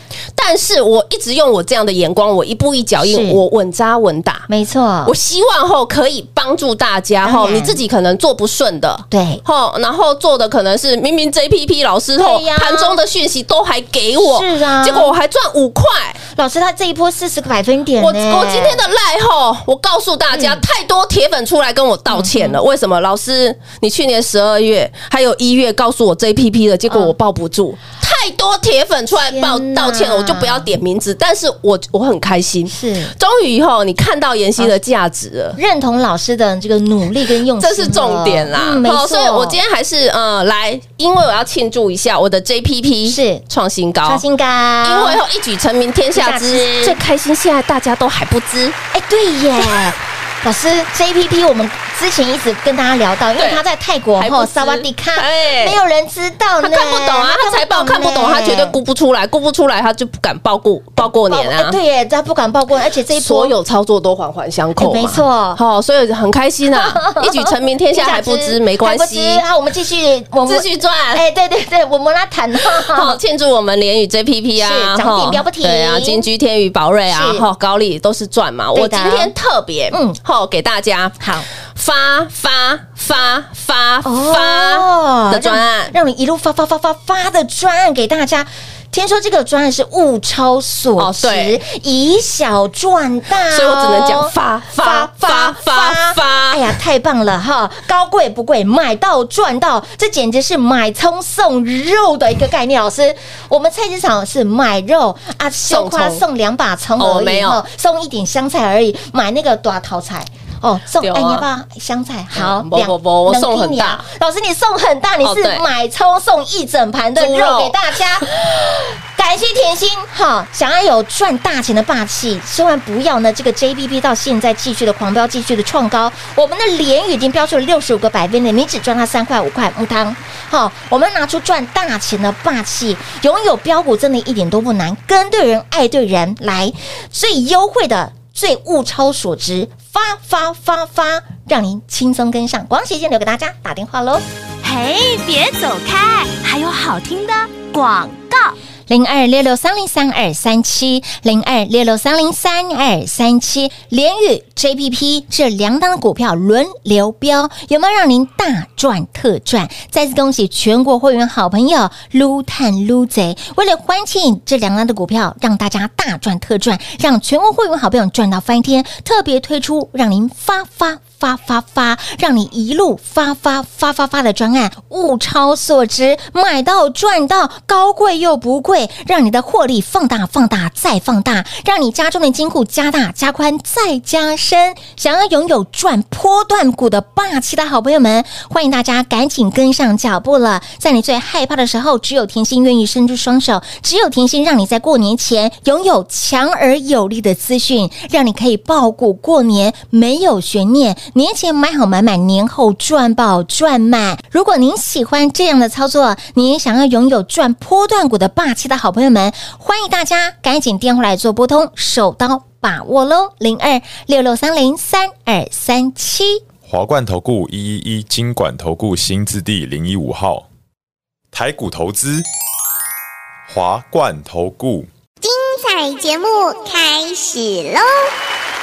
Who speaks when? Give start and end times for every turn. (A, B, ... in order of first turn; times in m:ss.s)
0:00.4-0:04.5 A
0:03.0-0:03.4 B
0:04.5-0:05.1 B
0:05.0-0:16.2 A
0:07.2-0:07.8 B
0:09.1-0:09.4 B
0:12.2-0:13.0 B
0:14.2-0:15.1 B
0:16.3-0:18.8 B
0:18.0-0:35.6 A
0:20.3-0:20.6 B
0:22.1-0:22.6 B
0:29.1-0:30.7 B
0:32.7-0:33.1 B
0:35.6-0:39.6 B
0:37.6-0:44.2 A
0:43.0-0:43.4 B
0:44.0-0:45.2 B
0:44.8-0:48.8 A
0:46.1-0:47.0 B
0:48.9-0:58.8 B
0:54.2-0:55.8 A
0:56.6-1:01.8 A
1:01.0-1:03.5 B
1:03.1-1:09.4 A
1:04.8-1:05.6 B
1:06.7-1:13.2 B
1:10.5-1:11.2 A
1:12.7-1:21.2 A
1:14.6-1:16.3 B
1:17.1-1:17.4 B
1:18.7-1:19.3 B
1:19.9-1:20.2 B
1:21.2-1:21.4 B
1:21.7-1:25.9 A
1:24.0-2:24.2 B
1:31.0-1:31.6 A
1:33.5-1:36.7 A
1:45.7-1:46.2 A
1:47.0-1:47.6 A
1:51.0-1:51.4 A
1:52.3-1:54.0 A
1:55.2-1:55.6 A
1:57.2-1:57.7 A
2:24.6-2:28.6 C
2:28.9-3:36.4 B
3:36.6-3:40.5 D
3:41.3-3:42.2 D
3:43.5-3:44.9 D
3:45.2-3:48.1 E